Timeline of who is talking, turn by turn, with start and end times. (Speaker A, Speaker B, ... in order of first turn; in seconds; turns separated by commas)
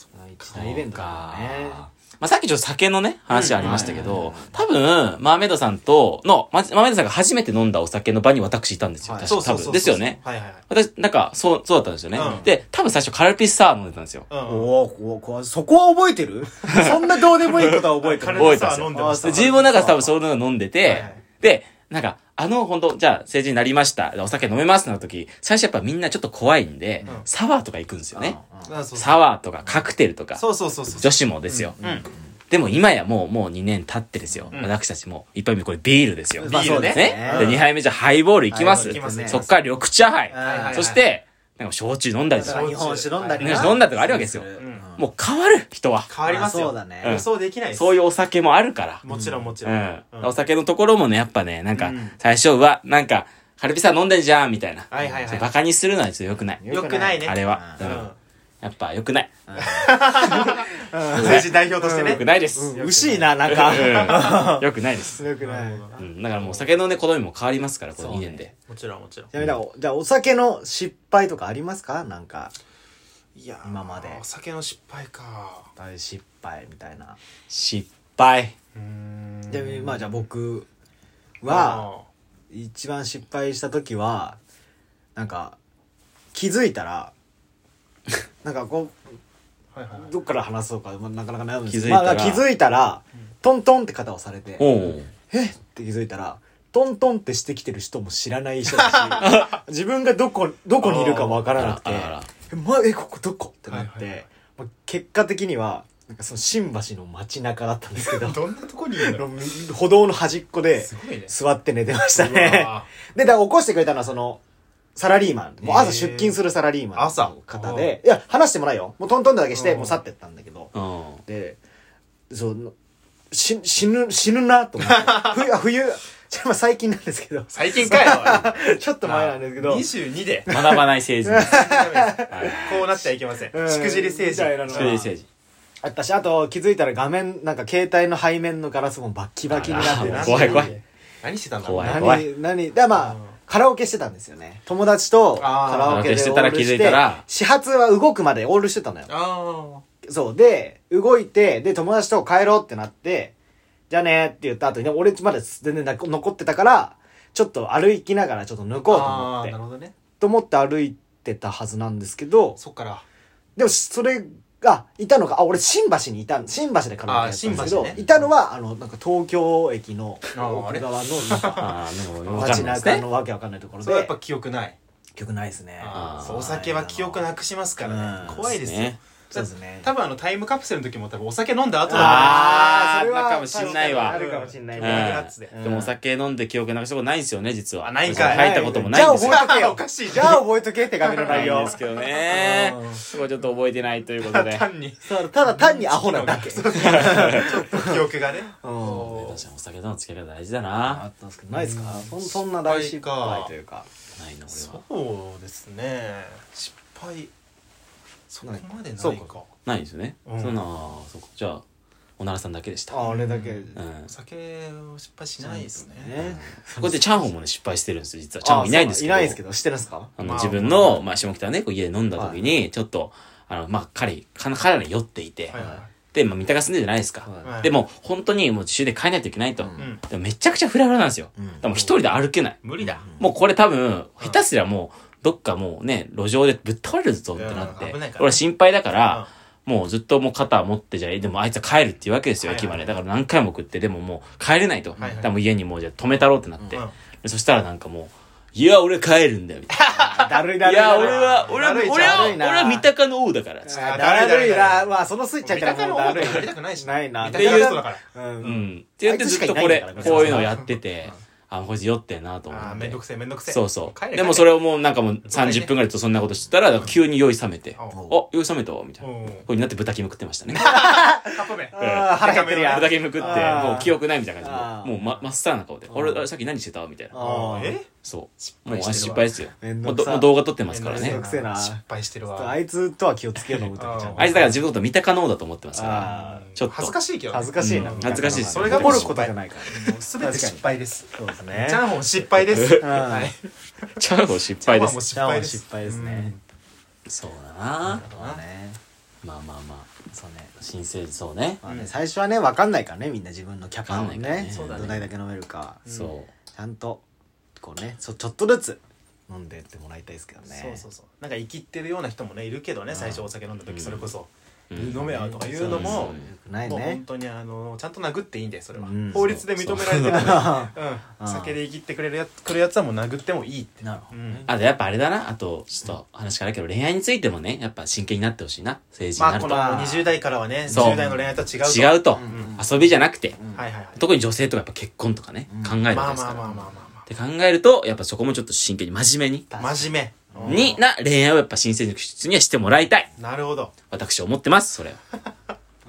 Speaker A: 0.1-1.9, Speaker B: 0.5-14.3, Speaker C: 3.3-4.1, Speaker A: 3.6-4.6, Speaker A: 9.0-9.4, Speaker C: 9.2-10.6, Speaker C: 12.1-12.5, Speaker A: 12.2-12.5, Speaker C: 14.3-14.7, Speaker A: 14.4-20.1, Speaker B: 16.6-28.4, Speaker C: 17.6-19.7, Speaker C: 20.8-21.2, Speaker A: 28.1-28.8, Speaker C: 28.6-29.2, Speaker B: 28.9-31.8, Speaker C: 30.4-32.0, Speaker A: 31.8-32.3, Speaker B: 32.5-42.8, Speaker A: 34.3-34.5, Speaker C: 34.5-34.8, Speaker A: 36.4-37.6, Speaker C: 36.4-37.7, Speaker A: 38.5-39.5, Speaker C: 38.7-39.6, Speaker A: 40.3-41.0, Speaker C: 40.4-41.0, Speaker C: 42.3-43.8, Speaker A: 42.3-45.1, Speaker B: 43.4-46.1, Speaker C: 44.5-44.9, Speaker C: 46.1-48.0, Speaker A: 46.2-47.2, Speaker B: 47.0-49.1, Speaker C: 49.0-50.4, Speaker A: 49.1-49.5, Speaker B: 49.6-56.6, Speaker C: 51.7-52.2, Speaker C: 54.9-55.5, Speaker A: 55.0-55.3, Speaker A: 56.6-57.8, Speaker C: 56.7-58.1, Speaker B: 57.2-58.1, Speaker B: 58.6-59.3, Speaker A: 59.5-66.0, Speaker C: 59.6-63.3, Speaker B: 61.1-65.3, Speaker C: 63.9-64.6, Speaker C: 65.2-66.7, Speaker B: 66.0-68.5, Speaker A: 68.0-68.5, Speaker C: 68.7-69.3, Speaker A: 69.3-72.5, Speaker C: 73.3-75.7, Speaker A: 73.6-74.2, Speaker A: 75.8-77.2, Speaker B: 77.5-78.5, Speaker C: 78.8-80.0, Speaker A: 79.5-80.7, Speaker A: 81.4-81.9, Speaker C: 81.4-82.1, Speaker A: 82.5-84.4, Speaker A: 85.2-85.6, Speaker A: 86.3-87.1, Speaker A: 88.4-89.0, Speaker C: 89.8-90.1, Speaker A: 89.9-94.7, Speaker B: 91.7-92.5, Speaker B: 94.6-95.1, Speaker A: 95.3-108.4, Speaker C: 98.7-99.4, Speaker B: 99.2-99.6, Speaker C: 100.8-101.5, Speaker B: 101.5-102.3, Speaker C: 103.7-104.2, Speaker C: 108.0-109.2, Speaker A: 109.0-114.4, Speaker C: 110.8-111.3, Speaker C: 111.9-112.9, Speaker A: 115.0-120.7, Speaker C: 115.6-116.4, Speaker C: 116.9-118.0, Speaker C: 119.5-120.0, Speaker B: 120.7-121.2, Speaker A: 121.3-121.6, Speaker A: 122.3-122.7, Speaker A: 123.3-129.9, Speaker C: 124.8-125.5, Speaker C: 127.5-130.5, Speaker A: 130.5-132.8, Speaker B: 130.5-131.6, Speaker C: 131.3-135.0, Speaker B: 132.3-132.9, Speaker A: 133.5-135.1, Speaker B: 134.7-135.3, Speaker A: 135.8-140.8, Speaker B: 139.5-140.8, Speaker C: 139.7-142.1, Speaker B: 141.6-142.3, Speaker A: 141.8-149.1, Speaker C: 142.9-143.4, Speaker C: 145.4-146.1, Speaker B: 145.8-147.2, Speaker C: 149.1-149.8, Speaker A: 150.0-153.3, Speaker A: 153.9-159.6, Speaker C: 158.9-159.9, Speaker A: 160.2-162.6, Speaker C: 162.6-163.0, Speaker A: 163.6-171.7, Speaker C: 167.1-168.3, Speaker C: 170.3-172.8, Speaker B: 171.5-173.0, Speaker A: 172.3-174.1, Speaker C: 173.8-174.8, Speaker A: 175.1-177.2, Speaker C: 175.8-182.7, Speaker B: 175.9-176.5, Speaker A: 177.8-178.5, Speaker B: 178.4-179.0, Speaker A: 179.3-179.9, Speaker A: 181.9-185.9, Speaker B: 181.9-184.2, Speaker C: 183.5-185.6, Speaker B: 184.8-189.4, Speaker C: 187.8-190.5, Speaker A: 188.1-191.8, Speaker C: 191.0-193.4, Speaker B: 191.3-194.7, Speaker C: 194.2-199.4, Speaker A: 195.0-198.1, Speaker B: 196.7-197.6, Speaker A: 198.6-199.2, Speaker B: 199.1-201.0, Speaker A: 200.8-203.9, Speaker C: 201.5-203.5, Speaker B: 204.2-204.8, Speaker C: 204.5-207.3, Speaker C: 208.3-209.5, Speaker A: 208.4-209.3, Speaker B: 209.6-211.6, Speaker C: 210.2-210.7, Speaker B: 212.2-213.0, Speaker A: 212.9-213.8, Speaker C: 213.0-216.2, Speaker B: 213.7-214.1, Speaker A: 215.4-217.2, Speaker B: 216.2-219.4, Speaker A: 218.4-220.1, Speaker B: 220.2-225.6, Speaker C: 220.2-221.1, Speaker A: 222.1-222.6, Speaker C: 225.5-225.9, Speaker A: 225.6-225.8, Speaker B: 226.1-249.8, Speaker A: 227.2-227.5, Speaker C: 227.4-227.8, Speaker A: 229.6-229.9, Speaker C: 229.8-230.0, Speaker A: 231.4-231.7, Speaker C: 231.7-233.1, Speaker A: 232.8-233.2, Speaker C: 237.3-238.4, Speaker C: 239.0-239.3, Speaker C: 242.4-242.9, Speaker C: 244.9-245.3, Speaker C: 246.7-246.9, Speaker C: 249.8-252.4, Speaker A: 249.9-252.9, Speaker B: 250.6-253.8, Speaker A: 253.6-260.5, Speaker C: 253.7-258.7, Speaker B: 257.3-257.8, Speaker B: 258.4-270.8, Speaker C: 259.9-260.8, Speaker C: 262.5-264.6, Speaker C: 265.2-265.7, Speaker A: 267.9-268.2, Speaker C: 269.0-269.5, Speaker C: 270.5-273.8, Speaker A: 270.6-275.0, Speaker B: 271.8-277.2, Speaker A: 275.9-276.3, Speaker A: 277.1-277.8, Speaker C: 277.1-277.9, Speaker B: 278.0-281.2, Speaker C: 278.4-279.4, Speaker A: 279.6-284.6, Speaker C: 280.7-282.6, Speaker C: 283.7-284.6, Speaker B: 284.2-286.9, Speaker A: 285.7-286.5, Speaker C: 286.0-294.0, Speaker A: 287.3-291.8, Speaker B: 287.6-289.2, Speaker B: 292.5-292.9, Speaker A: 292.7-293.3, Speaker B: 294.0-295.0, Speaker C: 294.6-296.4, Speaker A: 295.1-296.3, Speaker B: 297.1-298.1, Speaker A: 297.8-298.8, Speaker C: 298.0-298.4, Speaker B: 299.2-299.9, Speaker A: 300.1-300.5, Speaker B: 300.6-301.6, Speaker A: 301.6-305.8, Speaker C: 301.6-301.9, Speaker B: 303.9-305.1, Speaker C: 304.5-305.1, Speaker C: 305.9-306.1, Speaker B: 305.9-306.3, Speaker A: 306.5-307.0, Speaker A: 307.6-310.8, Speaker C: 310.5-324.5, Speaker A: 312.9-313.3, Speaker B: 313.7-314.1, Speaker B: 314.7-316.3, Speaker A: 314.8-317.0, Speaker A: 318.7-319.3, Speaker B: 319.1-320.5, Speaker A: 320.0-321.6, Speaker A: 323.8-324.6, Speaker B: 324.5-329.7, Speaker C: 329.2-332.6, Speaker A: 329.4-331.3, Speaker B: 330.7-331.1, Speaker B: 331.6-333.4, Speaker A: 332.1-333.6, Speaker C: 333.6-334.0, Speaker B: 333.9-339.5, Speaker A: 335.5-335.8, Speaker C: 335.9-337.1, Speaker A: 339.5-340.8, Speaker C: 339.6-340.8, Speaker B: 340.4-343.1, Speaker C: 343.2-343.7, Speaker B: 343.9-345.0